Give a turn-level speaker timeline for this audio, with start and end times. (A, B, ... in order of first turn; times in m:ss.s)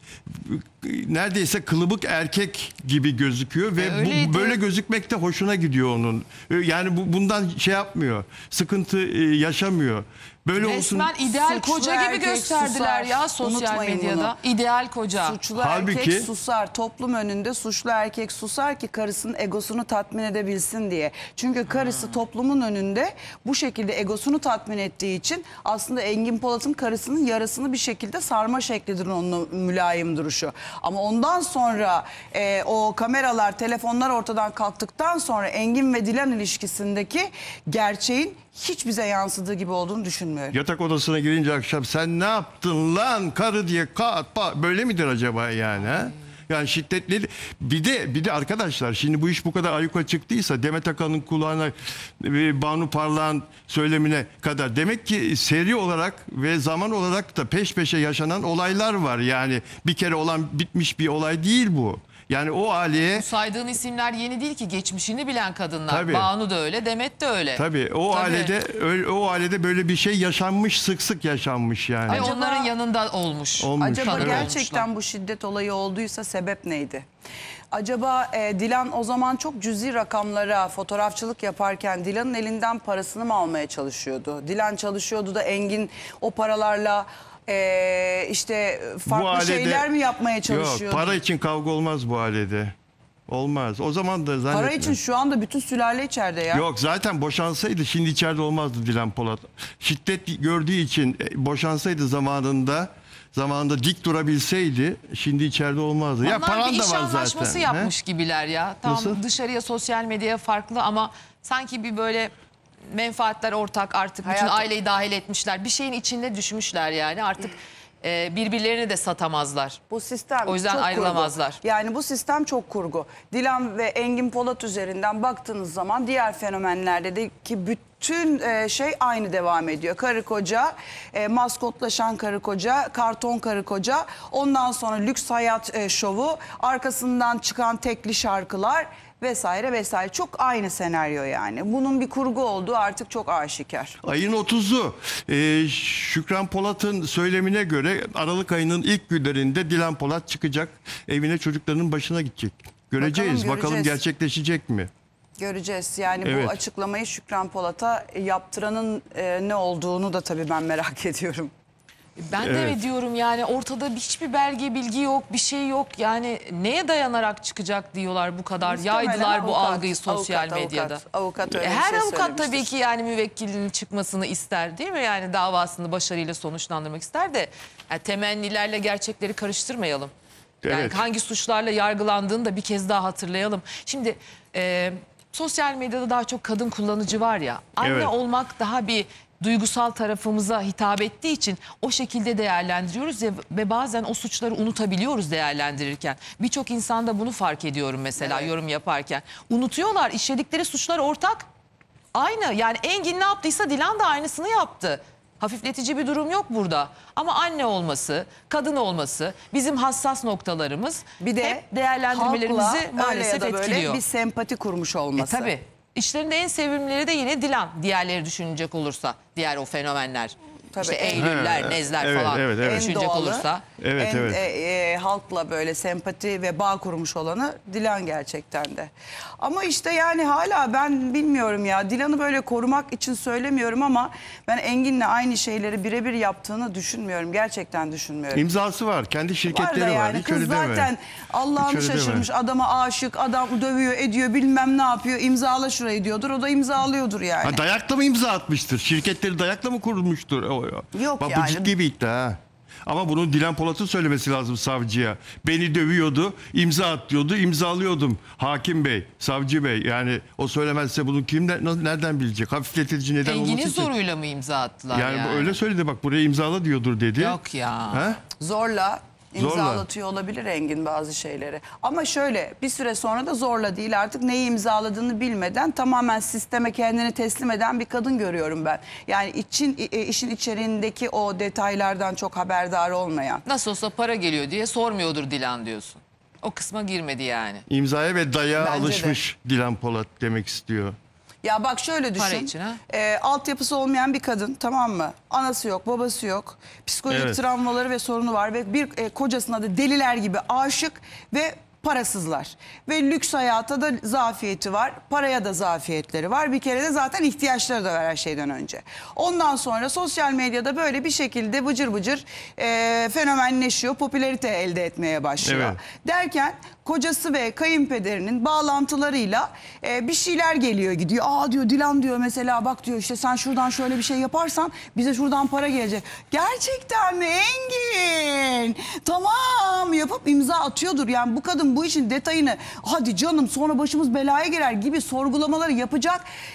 0:00.3-0:11.1 A
0:03.8-0:04.6 B
0:10.6-0:15.4 B
0:11.2-0:14.4 C
0:15.1-0:40.6 C
0:15.6-0:16.3 A
0:21.7-0:22.1 B
0:40.5-1:03.3 A
1:03.2-1:08.5 B
1:05.9-1:06.3 A
1:07.6-1:12.3 A
1:12.1-1:14.8 B
1:12.1-1:12.7 C
1:13.6-1:14.5 A
1:13.8-1:17.1 C
1:17.7-1:31.2 C
1:29.1-1:29.9 A
1:30.5-1:32.7 A
1:33.3-1:35.0 A
1:34.5-1:36.6 C
1:36.5-1:47.9 A
1:46.2-1:52.3 B
1:48.8-1:49.2 A
1:52.9-1:59.8 B
1:54.2-1:54.7 C
1:59.9-2:24.0 C
2:00.5-2:01.6 B
2:24.0-2:34.9 A
2:33.0-2:34.0 C
2:35.4-2:41.5 C
2:36.2-2:36.6 A
2:42.2-3:00.1 B
2:42.4-2:42.8 A
2:48.6-2:52.7 C
3:00.6-3:01.0 A
3:00.7-3:21.5 B
3:07.8-3:08.1 A
3:18.2-3:18.5 C
3:22.1-3:34.0 B
3:31.2-3:35.5 C
3:35.2-3:43.6 B
3:40.7-3:41.3 C
3:41.2-3:42.9 A
3:42.6-3:43.5 C
3:43.8-3:44.4 A
3:44.0-3:58.4 C
3:58.3-4:00.9 A
3:59.5-4:07.6 C
4:01.6-4:02.3 A
4:07.4-4:23.9 A
4:11.0-4:11.7 C
4:23.2-4:25.6 B
4:24.9-4:27.4 A
4:27.2-4:28.0 B
4:27.9-4:28.2 A
4:28.4-4:43.4 C
4:29.4-4:29.8 A
4:43.4-4:47.6 B
4:47.7-4:51.0 A
4:48.6-4:49.2 C
4:51.4-5:36.2 C
4:52.2-4:52.8 B
4:57.1-4:57.4 A
5:15.4-5:15.8 A